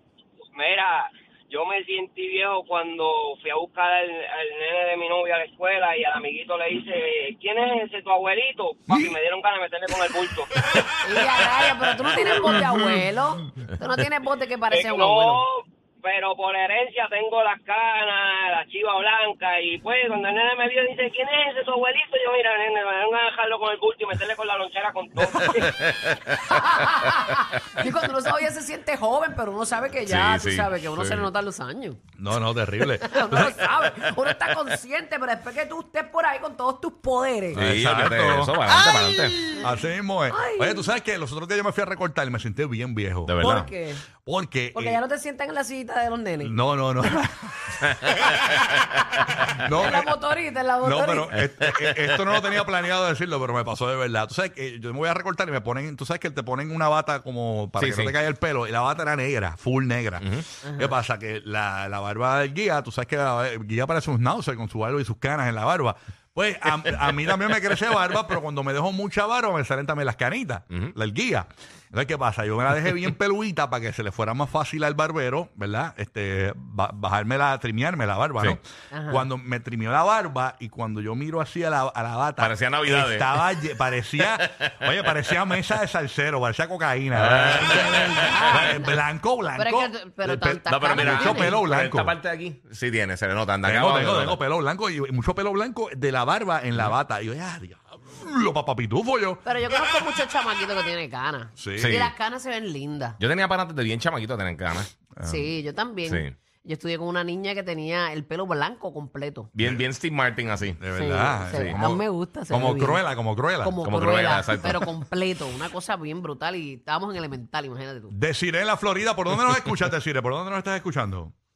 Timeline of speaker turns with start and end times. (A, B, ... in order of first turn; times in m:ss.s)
0:00.4-0:10.5 A
0:08.9-0:09.2 B
0:11.0-0:15.4 C
0:12.4-0:13.0 B
0:14.7-0:25.7 A
0:25.2-0:27.6 D
0:26.5-0:32.0 C
0:30.1-0:31.3 D
0:32.2-0:33.9 B
0:32.8-0:37.6 C
0:37.5-0:38.8 B
0:37.5-0:39.4 D
0:38.7-0:39.6 C
0:39.5-0:43.4 B
0:40.3-0:40.9 C
0:43.2-0:43.7 D
0:43.4-0:44.0 C
0:44.2-0:45.0 B
0:44.7-0:46.6 C
0:46.4-0:47.7 B
0:48.3-0:49.0 D
0:49.6-0:50.1 B
0:49.7-0:51.3 C
0:50.8-1:32.1 B
0:51.4-0:52.4 D
0:57.8-0:58.2 D
1:18.9-1:19.2 C
1:22.4-1:23.6 D
1:24.2-1:24.9 D
1:27.1-1:28.8 D
1:27.6-1:28.9 C
1:29.5-1:31.6 C
1:30.7-1:34.4 D
1:33.6-1:39.4 B
1:39.4-1:43.2 C
1:41.6-1:42.0 B
1:41.8-1:42.1 D
1:43.2-1:44.9 D
1:45.2-1:45.5 B
1:45.2-1:49.5 C
1:46.0-1:46.3 D
1:49.5-1:50.8 D
1:50.8-1:53.8 B
1:50.9-1:58.1 C
1:51.5-1:51.8 D
1:53.8-1:54.9 D
1:58.1-2:01.3 B